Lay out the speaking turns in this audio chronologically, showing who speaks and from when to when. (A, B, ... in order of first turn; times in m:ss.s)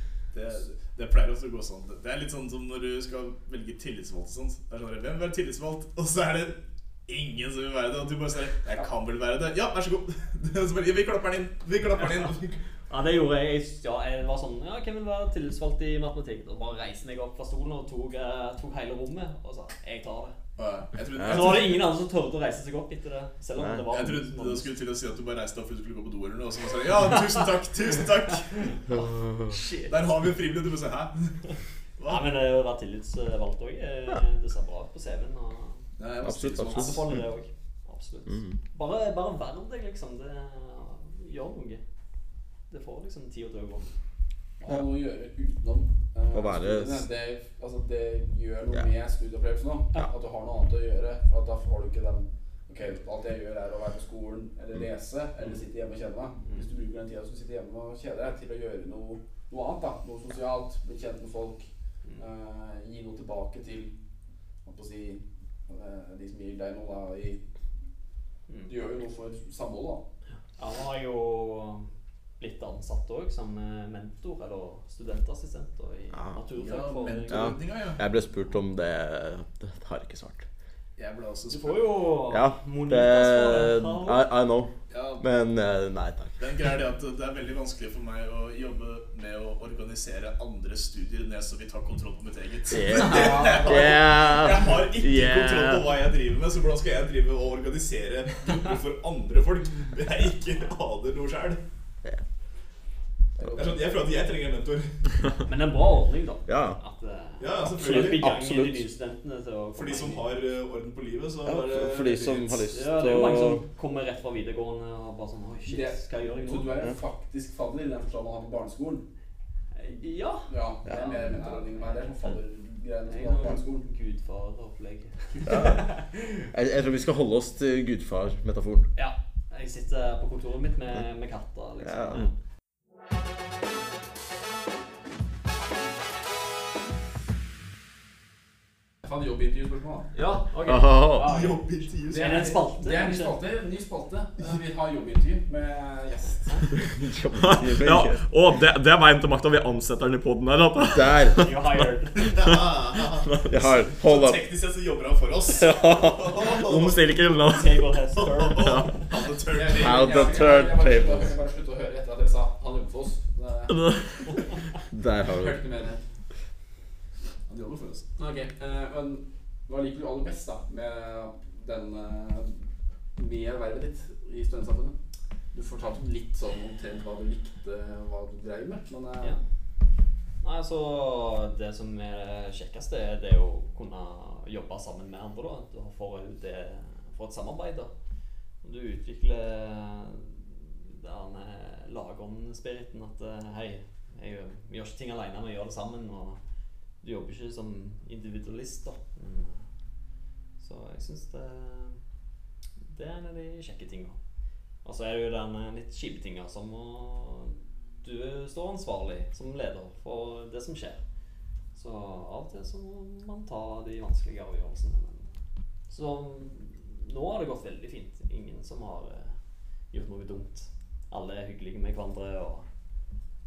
0:00.3-0:12.6 A
0:12.0-0:12.3 B
0:12.9-0:20.4 B
0:20.6-0:21.9 A
0:21.2-0:24.8 B
0:23.6-0:23.8 C
0:23.9-0:28.9 A
0:28.9-0:29.9 B
0:29.8-0:31.3 A
0:32.0-0:32.3 A
0:32.0-0:35.8 B
0:36.0-0:37.1 A
0:36.2-0:37.0 C
0:36.6-0:41.8 B
0:38.3-0:38.6 C
0:42.7-0:43.9 B
0:44.6-1:04.0 D
0:46.3-0:47.0 C
1:04.6-1:07.4 D
1:08.7-1:10.0 D
1:10.6-1:11.9 B
1:12.4-1:17.6 B
1:16.1-1:16.4 C
1:16.6-1:18.0 A
1:17.3-1:20.5 C
1:21.0-1:21.9 A
1:21.5-1:24.2 B
1:22.3-1:26.4 C
1:24.9-1:25.2 A
1:26.4-1:41.6 A
1:32.7-1:35.9 C
1:43.4-1:43.8 D
1:43.5-1:45.0 A
1:45.5-1:50.3 B
1:46.5-1:46.8 C
1:47.4-1:48.3 A
1:47.8-1:48.8 C
1:49.7-1:52.7 A
1:51.4-1:53.6 C
1:52.7-1:56.8 B
1:55.7-1:59.0 D
1:59.8-2:02.0 B
2:00.5-2:03.9 D
2:03.1-2:06.5 B
2:05.5-2:05.9 C
2:06.5-2:08.9 C
2:09.0-2:12.3 B
2:11.8-2:12.2 C
2:19.0-2:20.1 D
2:20.1-2:23.4 B
2:20.7-2:21.4 C
2:21.2-2:22.5 A
2:22.1-2:26.7 D
2:26.8-2:28.2 C
2:27.4-2:32.6 E
2:30.9-2:31.4 C
2:31.4-2:32.3 B
2:32.2-2:37.1 A
2:33.2-2:33.5 E
2:33.5-2:34.4 C
2:35.6-2:37.9 E
2:37.5-2:39.0 B
2:38.1-2:40.5 A
2:38.6-2:38.9 E
2:39.5-2:44.0 D
2:39.7-2:41.3 C
2:44.9-2:45.6 C
2:45.3-2:46.0 D
2:47.5-2:48.1 A
2:48.2-2:52.6 D
2:53.2-2:55.0 D
2:55.5-2:59.4 D
3:00.4-3:07.9 B
3:08.6-3:16.4 B
3:17.0-3:19.6 B
3:20.6-3:22.0 B
3:22.9-3:24.2 B
3:24.8-3:31.0 B
3:31.8-3:35.3 B
3:35.9-3:39.3 B
3:39.9-3:42.7 B